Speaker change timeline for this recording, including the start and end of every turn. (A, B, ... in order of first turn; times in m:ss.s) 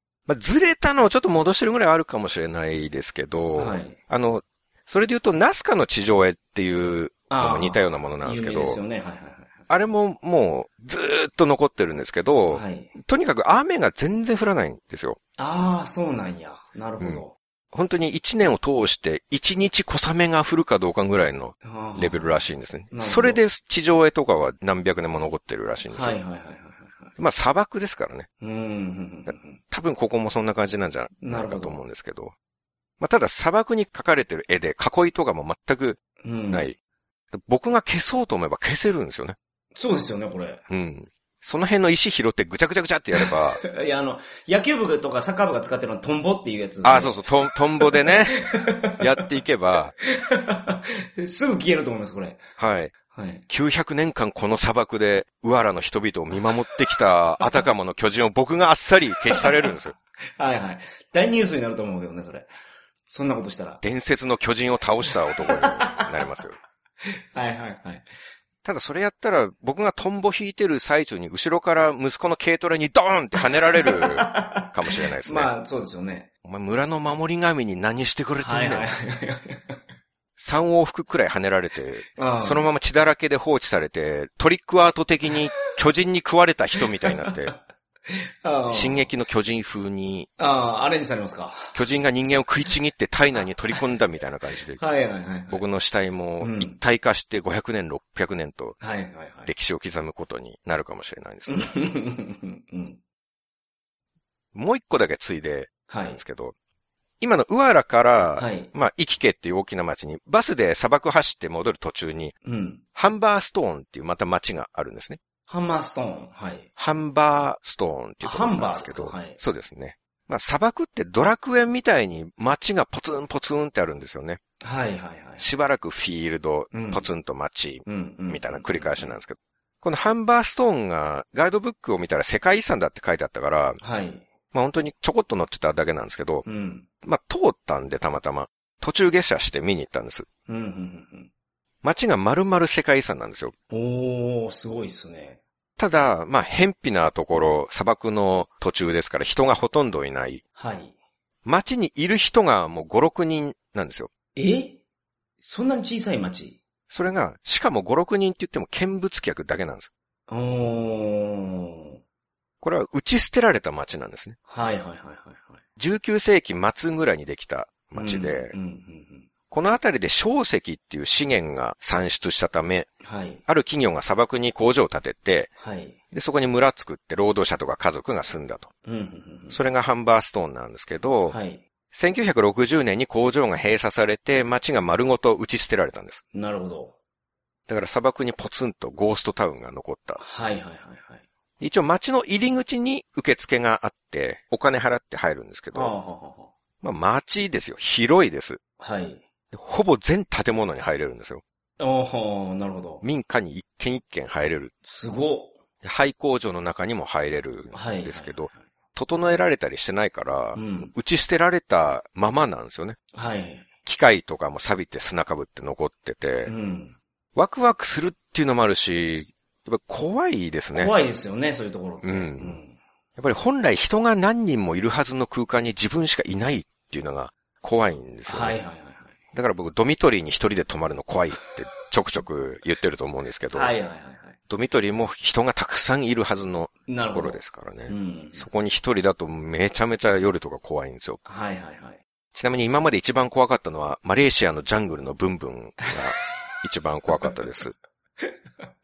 0:00.3-0:08.8 A
0:03.6-0:04.0 B
0:07.3-0:09.5 B
0:09.7-0:15.2 A
0:12.5-0:12.9 B
0:15.4-0:17.3 B
0:17.0-0:26.2 A
0:21.6-0:22.4 B
0:22.9-0:23.4 B
0:25.9-0:27.1 B
0:27.2-0:28.3 A
0:28.4-0:29.6 B
0:29.3-0:32.3 A
0:31.2-0:31.8 B
0:33.0-0:36.8 A
0:36.2-0:36.7 B
0:37.3-0:39.4 A
0:39.7-0:40.6 B
0:40.7-0:43.6 A
0:43.2-0:49.0 B
0:46.8-0:49.9 A
0:50.0-0:52.4 B
0:52.6-0:52.9 A
0:53.1-0:53.4 B
0:53.5-0:59.9 A
0:59.3-0:59.6 B
1:00.4-1:02.5 B
1:03.0-1:03.8 B
1:03.8-1:06.6 A
1:05.4-1:06.1 B
1:07.0-1:08.0 B
1:08.6-1:15.5 A
1:13.6-1:16.3 B
1:16.4-1:18.9 A
1:18.4-1:19.8 B
1:20.4-1:27.5 A
1:22.1-1:22.7 B
1:27.0-1:27.3 B
1:28.1-1:29.1 B
1:28.7-1:30.3 A
1:30.4-1:31.7 B
1:31.7-1:34.8 A
1:34.8-1:35.6 B
1:35.5-1:38.8 A
1:36.4-1:36.8 B
1:38.8-1:39.5 B
1:39.4-1:41.7 A
1:41.5-1:43.0 B
1:44.5-1:46.5 A
1:45.9-1:46.2 B
1:47.2-1:52.3 A
1:48.4-1:48.7 B
1:52.4-1:52.8 B
1:52.9-1:55.2 A
1:55.5-1:56.7 B
1:56.8-2:04.4 A
1:58.2-1:59.4 B
2:04.6-2:05.5 B
2:05.4-2:13.8 A
2:06.7-2:07.1 B
2:07.8-2:09.2 B
2:13.8-2:14.3 B
2:14.5-2:16.4 A
2:16.4-2:16.9 B
2:17.0-2:20.3 A
2:20.5-2:21.3 B
2:21.8-2:23.5 A
2:23.7-2:25.4 B
2:25.8-2:30.4 A
2:30.6-2:30.9 B
2:31.4-2:34.1 A
2:34.4-2:34.8 B
2:35.4-2:36.6 B
2:36.9-2:39.9 A
2:40.3-2:42.0 B
2:42.6-2:44.4 A
2:44.5-2:45.6 B
2:45.8-2:48.5 A
2:48.0-2:49.3 B
2:49.5-2:52.9 A
2:53.0-2:53.4 B
2:53.5-2:55.5 A
2:55.6-2:56.0 B
2:56.1-2:58.7 A
2:58.8-2:59.6 B
2:59.5-3:01.4 A
3:01.3-3:01.6 B
3:01.9-3:06.2 A
3:06.3-3:06.9 B
3:07.7-3:10.2 A
3:10.2-3:11.2 B
3:11.6-3:15.9 A
3:15.7-3:16.5 B
3:16.8-3:18.6 A
3:18.8-3:19.2 B
3:19.5-3:21.4 A
3:21.8-3:23.0 B
3:23.0-3:24.7 A
3:24.8-3:25.5 B
3:25.8-3:33.0 A
3:27.7-3:28.6 B
3:30.5-3:30.9 B
3:33.1-3:33.7 B
3:33.8-3:36.5 A
3:36.4-3:37.0 B
3:37.3-3:40.9 A
3:40.7-3:42.8 B
3:42.0-3:42.6 A
3:43.2-3:48.6 A
3:48.3-3:49.1 B
3:49.3-3:53.7 A
3:53.5-3:54.4 B
3:54.5-4:01.2 A
3:56.9-3:58.5 B
4:01.2-4:02.0 B
4:02.3-4:07.8 A